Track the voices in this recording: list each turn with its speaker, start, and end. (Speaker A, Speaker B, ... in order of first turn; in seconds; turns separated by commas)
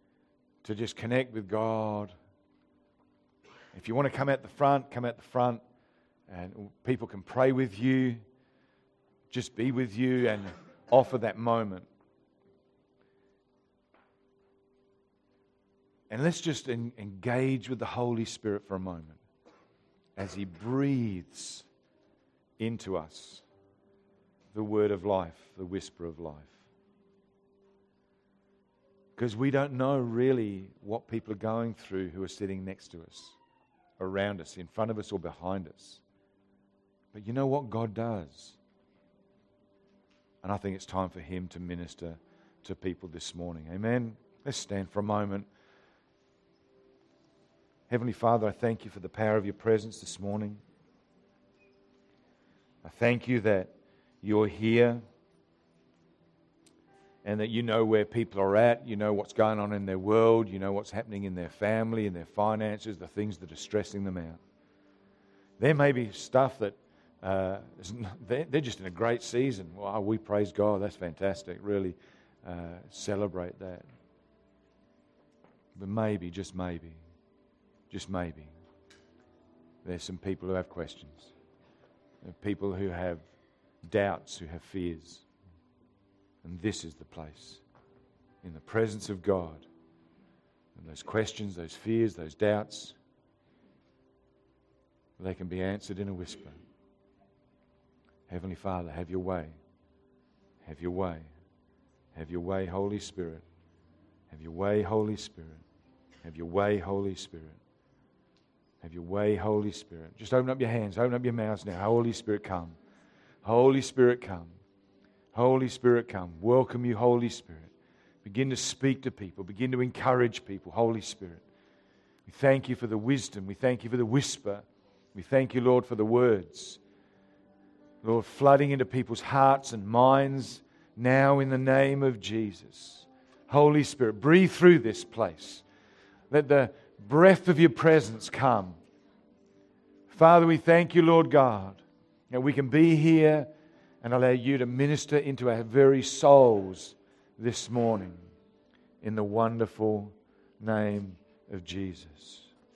Speaker A: 0.6-2.1, Speaker A: 3.7-5.6, Speaker A: 6.3-8.2, Speaker A: 9.3-11.9, Speaker A: 16.1-19.2, Speaker A: 20.2-21.6, Speaker A: 22.6-23.4, Speaker A: 24.5-26.6, Speaker A: 29.2-33.4, Speaker A: 34.0-36.0, Speaker A: 37.1-38.6, Speaker A: 40.4-45.5, Speaker A: 47.9-50.6, Speaker A: 52.8-55.0, Speaker A: 57.2-64.4, Speaker A: 65.6-73.9, Speaker A: 75.8-77.0, Speaker A: 77.9-78.5, Speaker A: 79.8-81.3, Speaker A: 82.2-83.2, Speaker A: 83.8-85.2, Speaker A: 86.4-87.6, Speaker A: 88.4-89.7, Speaker A: 90.8-93.0, Speaker A: 95.2-96.6, Speaker A: 98.3-99.6, Speaker A: 100.6-101.3, Speaker A: 102.1-103.4, Speaker A: 104.3-105.6, Speaker A: 106.2-107.6, Speaker A: 108.8-112.8, Speaker A: 113.4-114.5, Speaker A: 115.3-117.7, Speaker A: 118.2-121.4, Speaker A: 122.3-126.8, Speaker A: 128.0-135.6, Speaker A: 136.3-138.8, Speaker A: 140.1-143.5, Speaker A: 144.0-148.2, Speaker A: 149.0-152.5